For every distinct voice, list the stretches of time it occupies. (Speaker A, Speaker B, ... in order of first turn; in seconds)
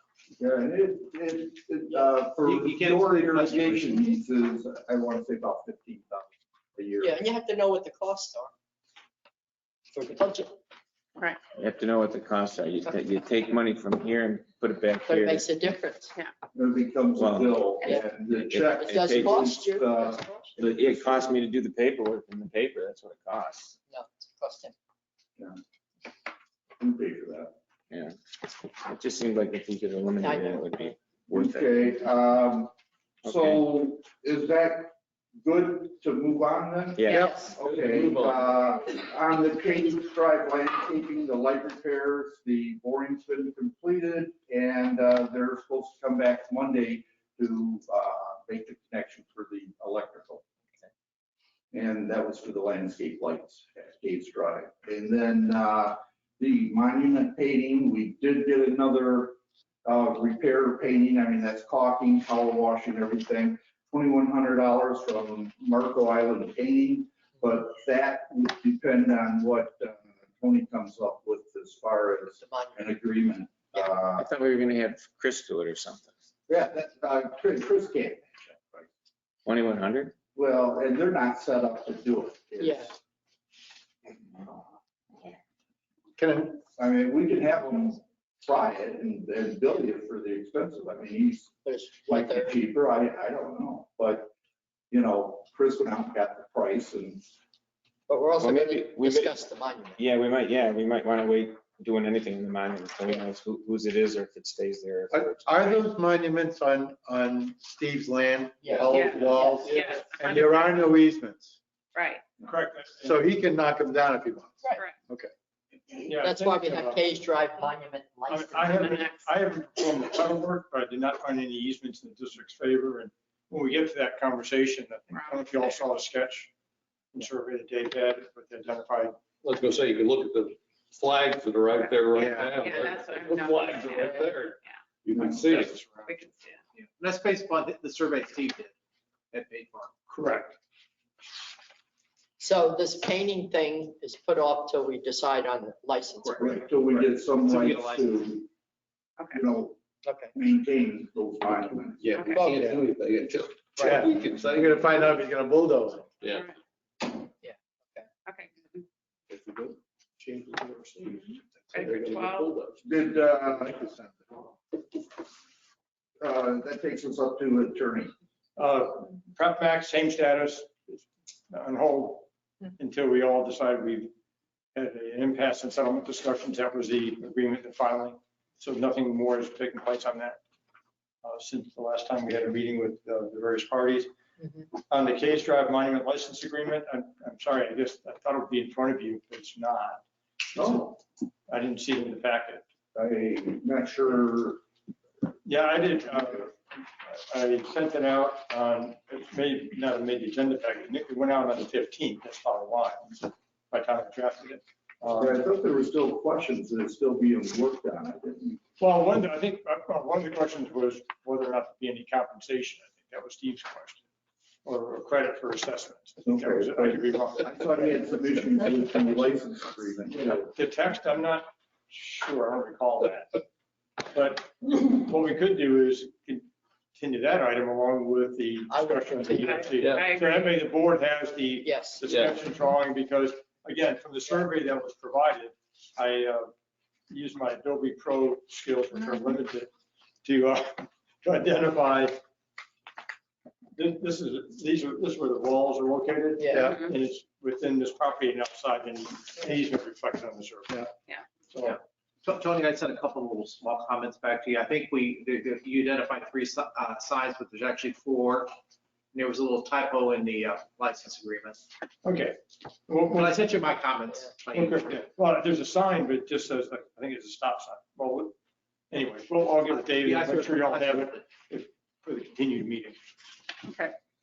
Speaker A: 0.4-7.2, 16.5-21.4, 26.8-27.5, 31.3-32.7, 33.2-50.5, 51.7-74.2, 76.5-78.9, 80.3-83.0, 86.8-91.5, 92.0-94.3, 94.9-97.3, 146.4-148.5, 149.3-152.3, 162.8-163.8, 166.2-168.1, 190.6-190.9, 192.9-194.6, 205.1-208.6, 216.2-220.5
Speaker B: 2.4-4.0, 136.8-138.7, 139.3-139.9, 147.5-148.1, 251.6-258.5, 259.1-261.6, 263.1-265.0, 269.7-271.2
Speaker C: 7.0-8.5, 9.9-10.5, 15.0-16.1, 17.8-20.5, 23.9-24.7, 30.2-30.7, 37.1-37.5, 72.4-72.9, 82.6-82.9, 91.6-92.6, 98.1-100.0, 108.6-109.7, 116.1-119.3, 142.4-146.7, 150.0-150.3, 152.3-152.6, 157.4-158.1, 184.4-184.7, 228.7-229.7, 231.6-232.0, 246.4-246.7
Speaker D: 11.6-15.5, 17.1-17.6, 18.5-19.6, 20.6-23.8, 27.9-31.9, 33.2-33.6, 37.0-37.3, 74.2-76.2, 79.4-80.1, 84.3-84.6, 98.4-99.4, 100.0-105.8
Speaker E: 37.5-38.5, 129.4-135.8, 152.0-155.2, 159.3-159.7, 161.0-162.8, 229.8-230.1, 232.1-232.4
Speaker F: 86.2-86.6, 105.1-111.6, 113.0-115.3, 153.9-156.1, 160.2-160.9, 163.3-164.4
Speaker G: 108.9-110.9, 111.9-112.2, 125.1-125.8, 132.1-134.8, 136.1-136.6, 152.1-152.4, 156.2-156.5, 158.2-158.8, 161.7-162.5, 229.4-230.5, 246.6-246.9, 273.6-273.9
Speaker H: 112.4-113.3, 116.0-117.0, 118.3-126.5, 127.1-129.2, 135.1-136.1, 140.1-140.6, 168.6-174.1, 174.7-180.4, 181.2-184.1, 184.9-192.6, 195.4-205.4, 208.8-214.0, 214.6-218.3, 220.5-223.4, 224.0-236.5, 237.1-239.7, 240.2-242.2, 243.8-250.9, 251.5-251.8, 262.0-263.4, 264.5-268.3, 268.9-273.0